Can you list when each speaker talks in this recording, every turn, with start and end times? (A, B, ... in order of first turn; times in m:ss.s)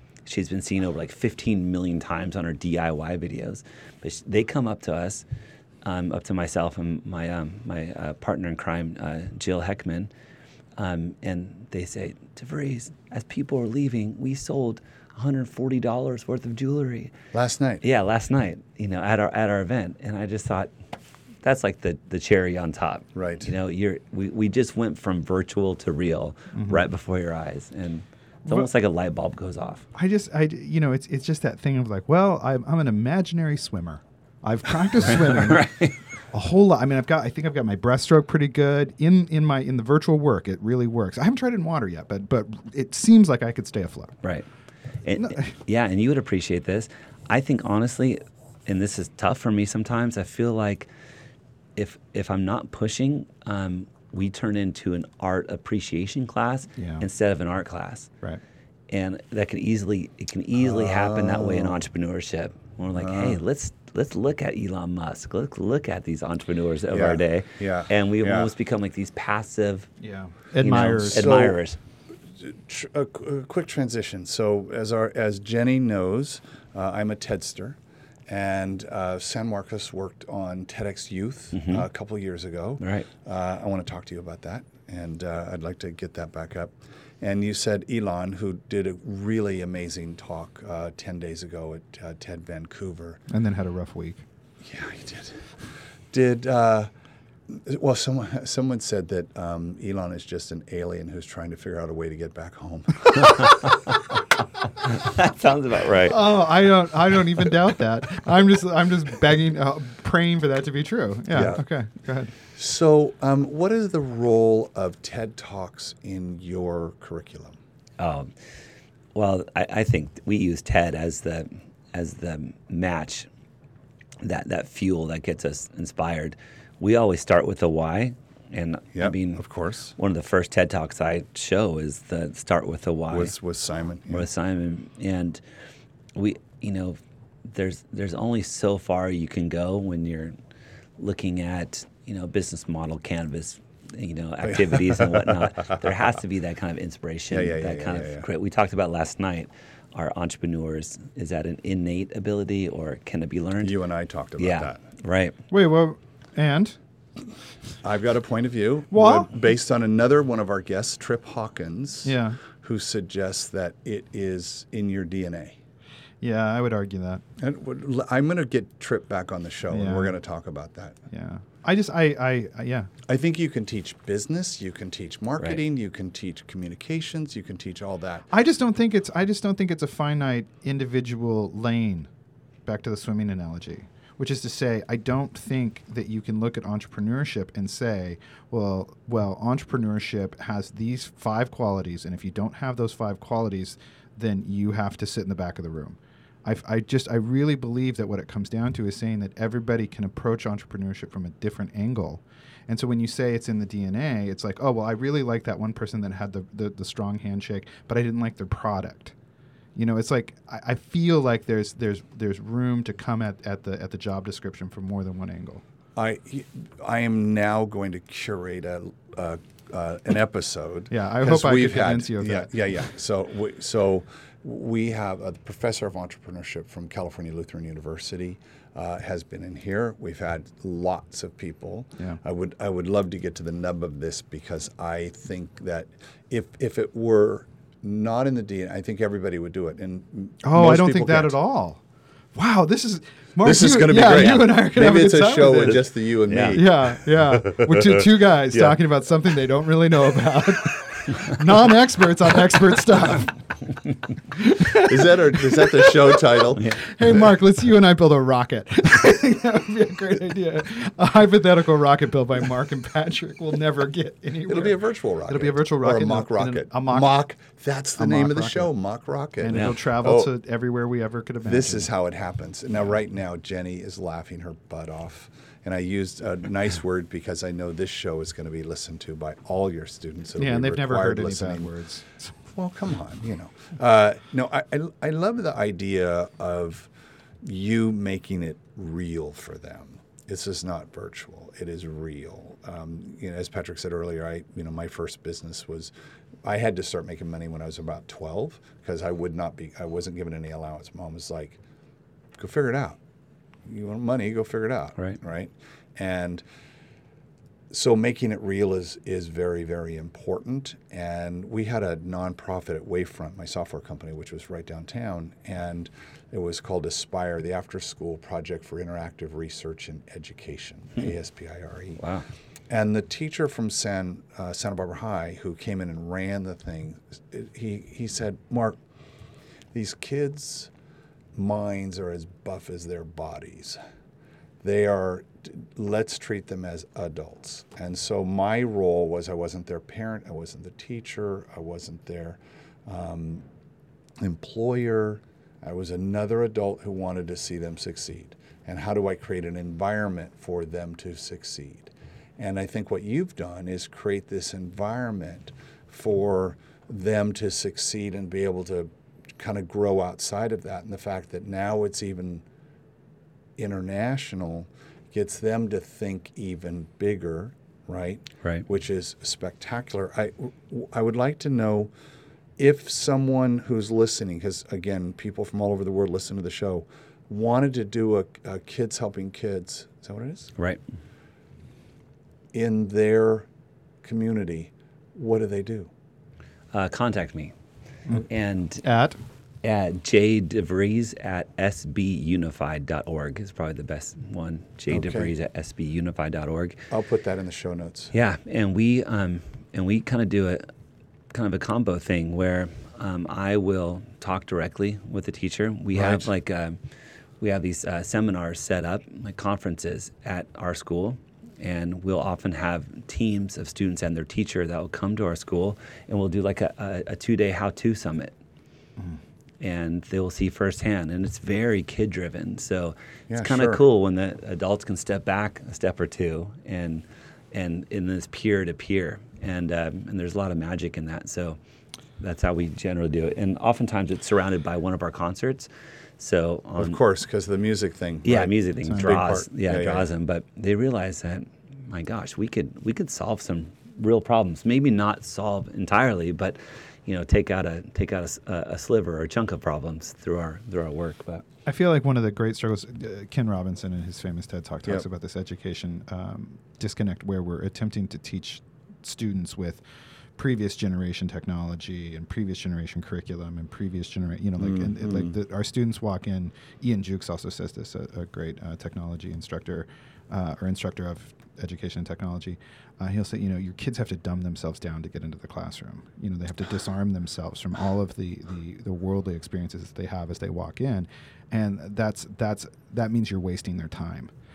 0:00.3-0:05.2 A
0:05.8-0:10.1 A
0:10.8-0:17.1 A
0:17.3-0:17.8 B
0:17.8-0:20.7 A
0:21.4-0:29.8 A
0:23.2-0:23.5 B
0:26.5-0:26.8 C
0:29.9-0:35.7 C
0:35.0-0:36.0 A
0:36.3-0:44.2 C
0:44.2-0:44.5 A
0:45.0-0:50.9 A
0:45.2-0:45.5 C
0:51.8-0:58.1 A
0:56.8-0:57.0 C
0:58.9-1:09.9 A
1:00.6-1:01.8 B
1:03.0-1:03.4 B
1:06.9-1:08.5 B
1:10.0-1:11.4 C
1:10.6-1:11.8 A
1:11.1-1:11.6 B
1:12.3-1:33.2 B
1:21.5-1:21.9 A
1:22.8-1:23.1 A
1:33.3-1:34.2 C
1:34.6-1:35.6 B
1:36.1-1:36.9 B
1:37.5-1:43.7 B
1:43.1-1:44.0 A
1:44.8-1:46.2 A
1:46.1-1:52.3 C
1:51.3-1:51.6 B
1:52.4-1:57.6 B
1:58.0-1:58.3 A
1:59.2-2:03.3 A
2:04.2-2:09.4 A
2:08.9-2:09.9 B
2:10.0-2:13.3 A
2:13.1-2:14.3 B
2:14.1-2:15.4 A
2:16.2-2:20.4 A
2:21.0-2:33.7 A
2:24.4-2:25.9 B
2:27.3-2:28.2 B
2:33.6-2:34.8 B
2:34.4-2:35.4 A
2:35.5-2:36.8 C
2:37.8-2:45.6 B
2:38.9-2:39.3 C
2:42.0-2:42.4 C
2:46.2-2:47.2 C
2:47.4-2:51.0 B
2:49.7-2:50.2 C
2:51.1-2:52.9 C
2:53.1-2:58.3 B
2:58.3-3:02.1 C
3:02.7-3:29.1 C
3:29.8-3:35.6 C
3:36.0-4:01.4 B
3:40.9-3:42.5 C
4:00.4-4:01.8 C
4:02.4-4:06.0 C
4:03.4-4:08.8 B
4:06.3-4:06.6 A
4:06.5-4:13.4 C
4:14.3-4:27.2 C
4:14.8-4:17.4 B
4:24.5-4:30.3 B
4:28.0-4:28.7 C
4:29.4-4:31.9 C
4:29.5-4:29.8 A
4:31.4-4:41.7 B
4:40.4-4:42.4 C
4:42.5-4:46.9 B
4:47.4-4:55.9 B
4:56.4-5:01.6 B
5:02.4-5:03.0 B
5:03.6-5:06.4 B
5:07.7-5:22.0 B
5:22.0-5:22.3 A
5:22.7-5:28.8 B
5:29.7-5:30.7 B
5:31.4-5:33.8 B
5:34.6-5:43.5 B
5:44.2-6:02.4 B
6:03.6-6:11.9 B
6:12.6-6:20.5 B
6:22.5-6:23.5 B
6:24.0-6:25.9 B
6:26.7-6:27.5 A
6:28.2-6:28.8 A
6:28.8-6:29.2 C
6:29.6-6:36.8 A
6:34.9-6:35.3 B
6:36.9-6:38.1 B
6:38.1-6:40.7 A
6:41.3-6:46.8 A
6:45.9-6:46.3 B
6:47.4-6:58.3 A
6:59.6-7:11.6 A
7:03.3-7:03.8 B
7:12.2-7:17.0 A
7:16.8-7:20.1 B
7:18.2-7:31.4 A
7:31.7-7:39.8 C
7:40.4-8:04.3 C
7:44.6-7:45.3 B